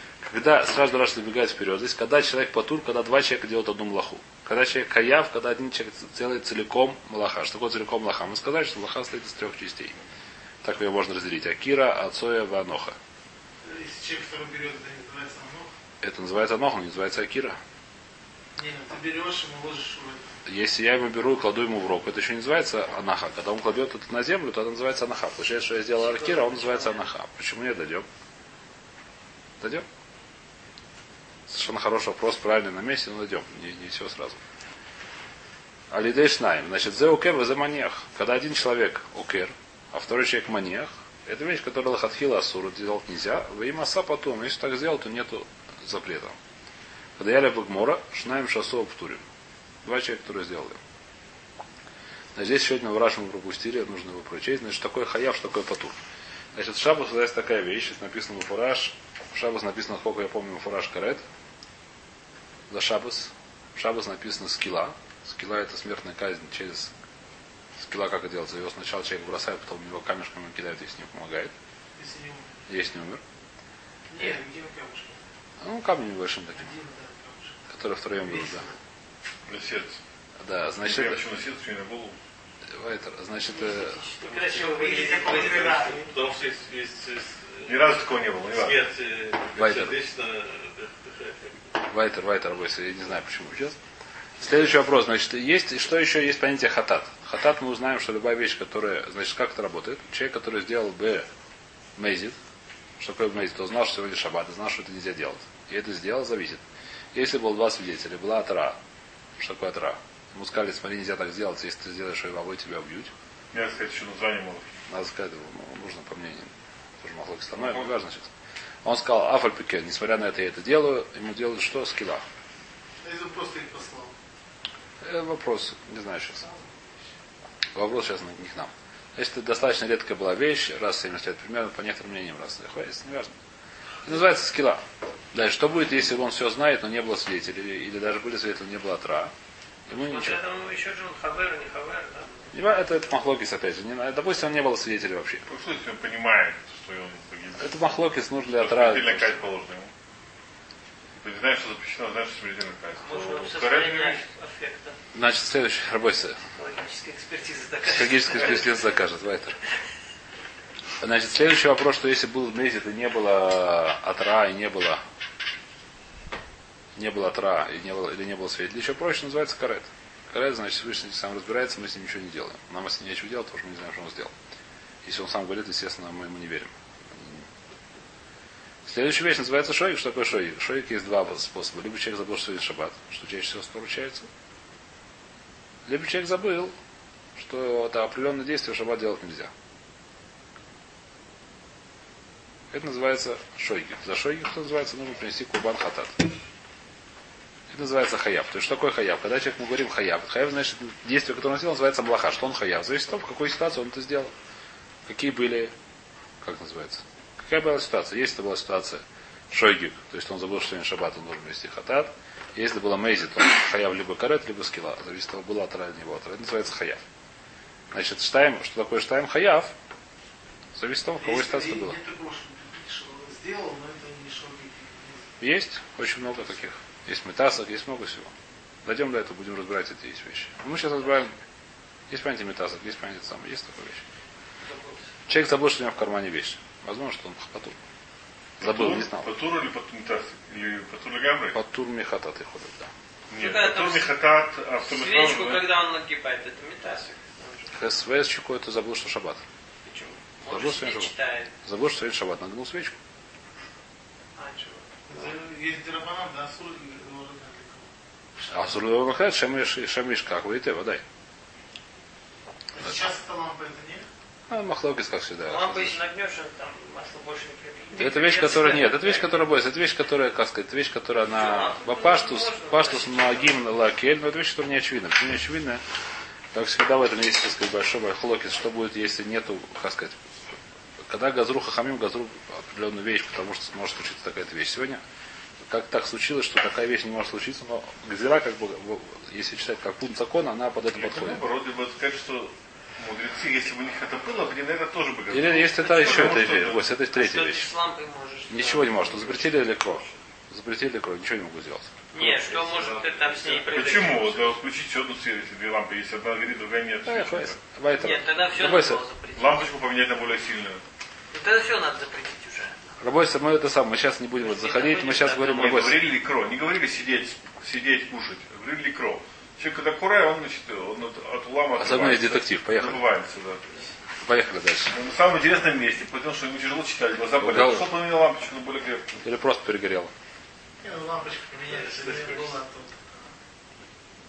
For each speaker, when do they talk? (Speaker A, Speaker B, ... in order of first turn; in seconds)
Speaker A: 0.2-9.9, 10.6-12.9, 16.0-17.6, 20.4-28.1, 31.5-34.4, 35.9-46.4, 47.2-49.2, 49.8-50.8, 52.4-55.9, 56.5-61.2, 62.7-66.9, 67.8-71.5, 72.7-73.2, 75.6-76.7, 77.7-78.7, 80.4-81.2, 82.7-84.0, 89.5-89.9, 91.8-93.8, 94.4-101.3, 102.0-102.4, 103.0-106.6, 107.1-108.8, 109.4-113.1, 114.9-118.3, 118.8-122.2, 125.0-126.4, 127.7-133.3, 134.0-139.3, 139.9-140.4, 142.5-145.4, 147.6-149.3, 155.1-156.4, 157.8-159.6, 161.0-165.0, 166.9-174.3, 175.0-177.3, 178.8-184.3, 185.9-186.7, 187.3-189.5, 192.7-196.2, 197.7-204.3, 205.1-205.7, 206.4-217.0, 217.9-219.7, 220.7-222.0, 225.4-228.3, 228.8-231.3, 232.1-234.0, 235.3-237.8, 238.6-239.3, 241.5-242.9, 247.7-249.4, 250.5-251.1, 251.6-253.0, 258.5-261.0, 264.5-266.0, 267.9-275.8, 276.5-280.2, 281.1-285.0, 285.7-291.4, 295.3-297.7, 298.5-302.2, 307.1-309.0, 313.0-316.0, 321.8-323.0, 324.2-324.9, 327.4-327.9, 329.2-330.1
Speaker B: 13.6-15.7, 18.6-20.2, 26.1-27.0, 72.0-72.6, 74.1-75.3, 76.6-77.6, 78.2-78.7, 84.5-86.1, 123.0-124.1, 221.2-225.3, 255.1-257.9, 262.7-264.1, 330.8-333.2
Speaker C: 79.5-80.0, 80.8-82.2, 87.6-88.8, 113.5-114.8, 117.5-117.9, 145.5-147.8, 148.5-149.9, 151.2-154.2, 238.6-241.6, 243.3-245.7, 290.9-296.9, 303.7-307.6, 309.3-310.8, 315.4-323.8, 324.9-329.2
Speaker D: 83.5-86.0, 139.9-142.5, 153.0-154.9, 156.6-158.7, 234.6-235.1, 243.4-244.1, 244.8-247.7, 249.8-251.5, 254.4-254.8, 265.5-269.4, 271.3-273.6, 295.8-296.6, 297.1-299.0, 302.1-304.6, 308.0-309.7, 311.3-312.7, 314.4-315.8
Speaker E: 84.3-87.9, 88.5-91.6, 302.4-304.0, 331.7-332.6